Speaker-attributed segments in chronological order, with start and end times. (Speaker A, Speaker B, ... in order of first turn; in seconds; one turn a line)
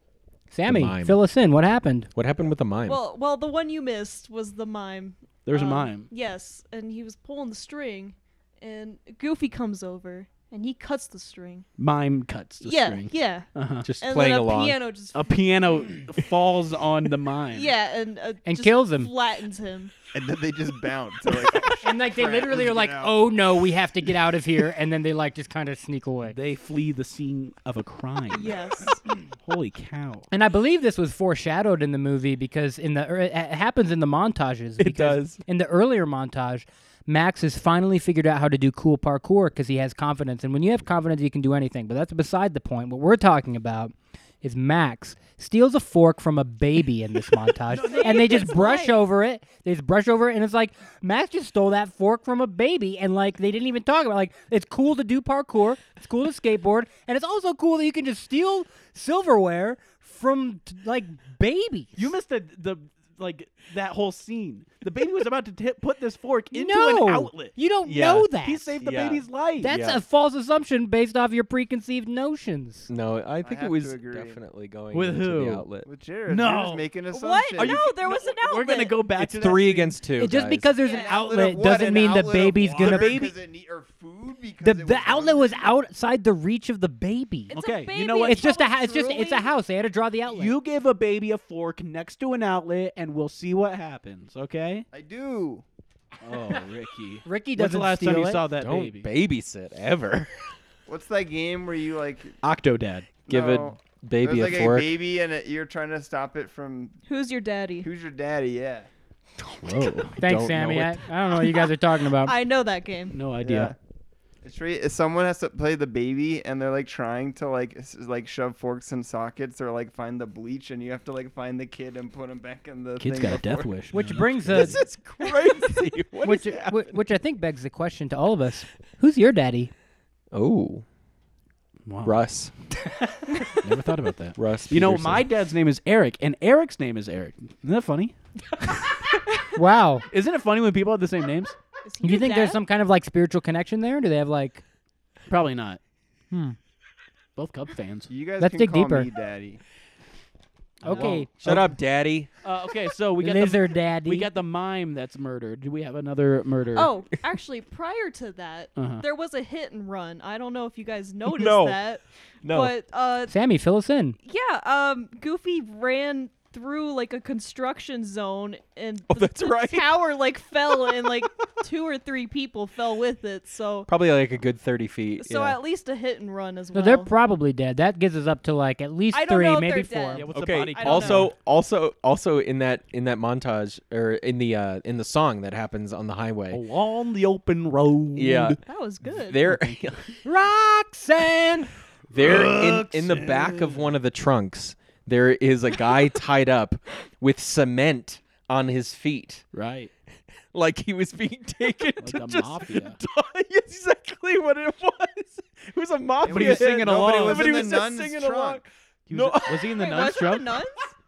Speaker A: 0.5-2.1
Speaker B: 0.7-1.2
Speaker B: 2.1-3.0
Speaker C: 2.9-11.7
Speaker D: 5.5-6.1
Speaker D: 11.8-13.9
Speaker C: 12.6-13.5
Speaker B: 13.8-14.8
Speaker C: 14.0-15.5
Speaker D: 15.1-17.7
Speaker C: 17.5-19.9
Speaker A: 18.4-19.1
Speaker E: 20.1-23.3
Speaker A: 21.8-26.4
Speaker D: 26.2-28.5
Speaker C: 28.3-29.0
Speaker D: 29.4-30.3
Speaker A: 30.3-62.1
Speaker B: 34.8-35.4
Speaker D: 47.7-48.9
Speaker C: 47.9-48.9
Speaker D: 61.9-67.5
Speaker A: 66.5-68.7
Speaker B: 67.8-70.0
Speaker D: 68.4-69.7
Speaker A: 69.6-72.9
Speaker B: 72.9-75.9
Speaker E: 73.4-74.4
Speaker D: 74.9-75.7
Speaker E: 75.8-77.8
Speaker D: 76.3-76.9
Speaker C: 77.1-79.0
Speaker D: 77.5-80.0
Speaker B: 79.2-80.7
Speaker A: 80.1-83.3
Speaker C: 80.8-81.2
Speaker E: 80.8-85.8
Speaker D: 82.8-83.3
Speaker A: 84.6-87.5
Speaker C: 87.5-89.5
Speaker D: 87.5-88.5
Speaker A: 88.1-90.5
Speaker D: 90.3-94.9
Speaker E: 94.9-95.6
Speaker D: 96.2-99.1
Speaker A: 97.2-98.4
Speaker B: 98.5-100.4
Speaker E: 100.9-102.4
Speaker D: 102.4-103.1
Speaker E: 103.3-107.0
Speaker B: 103.3-104.9
Speaker C: 107.1-107.9
Speaker E: 107.8-108.9
Speaker D: 109.5-110.2
Speaker A: 110.2-112.3
Speaker B: 110.2-111.0
Speaker C: 112.2-113.2
Speaker D: 113.1-113.7
Speaker E: 113.4-113.8
Speaker E: 114.4-124.1
Speaker D: 123.0-124.8
Speaker A: 123.9-124.8
Speaker B: 124.4-127.0
Speaker A: 126.2-129.7
Speaker B: 130.3-130.8
Speaker D: 131.8-132.2
Speaker B: 132.0-132.5
Speaker A: 133.1-133.5
Speaker D: 133.6-138.8
Speaker B: 134.3-135.3
Speaker A: 139.5-140.1
Speaker D: 140.1-141.6
Speaker C: 141.8-142.6
Speaker A: 142.0-144.6
Speaker D: 145.3-145.8
Speaker A: 146.3-146.6
Speaker D: 147.3-148.1
Speaker E: 148.1-149.6
Speaker A: 148.4-149.1
Speaker D: 150.8-151.7
Speaker A: 150.8-151.3
Speaker B: 151.3-152.3
Speaker D: 152.4-156.9
Speaker A: 153.2-154.3
Speaker C: 156.7-163.3
Speaker D: 158.8-159.0
Speaker B: 161.2-161.8
Speaker B: 162.4-162.7
Speaker A: 163.3-164.2
Speaker C: 164.2-173.9
Speaker B: 169.1-169.9
Speaker B: 170.8-171.2
Speaker B: 173.9-175.6
Speaker C: 175.2-177.1
Speaker A: 176.7-180.3
Speaker C: 179.1-181.3
Speaker D: 180.1-181.3
Speaker B: 180.3-186.6
Speaker D: 186.5-188.6
Speaker B: 188.2-190.4
Speaker C: 188.7-189.4
Speaker D: 189.3-190.1
Speaker A: 190.2-191.7
Speaker B: 192.1-199.4
Speaker D: 192.2-193.9
Speaker D: 199.5-199.9
Speaker B: 200.5-210.1
Speaker D: 202.0-203.0
Speaker E: 206.2-208.6
Speaker D: 206.3-207.8
Speaker D: 209.1-210.5
Speaker C: 209.7-210.9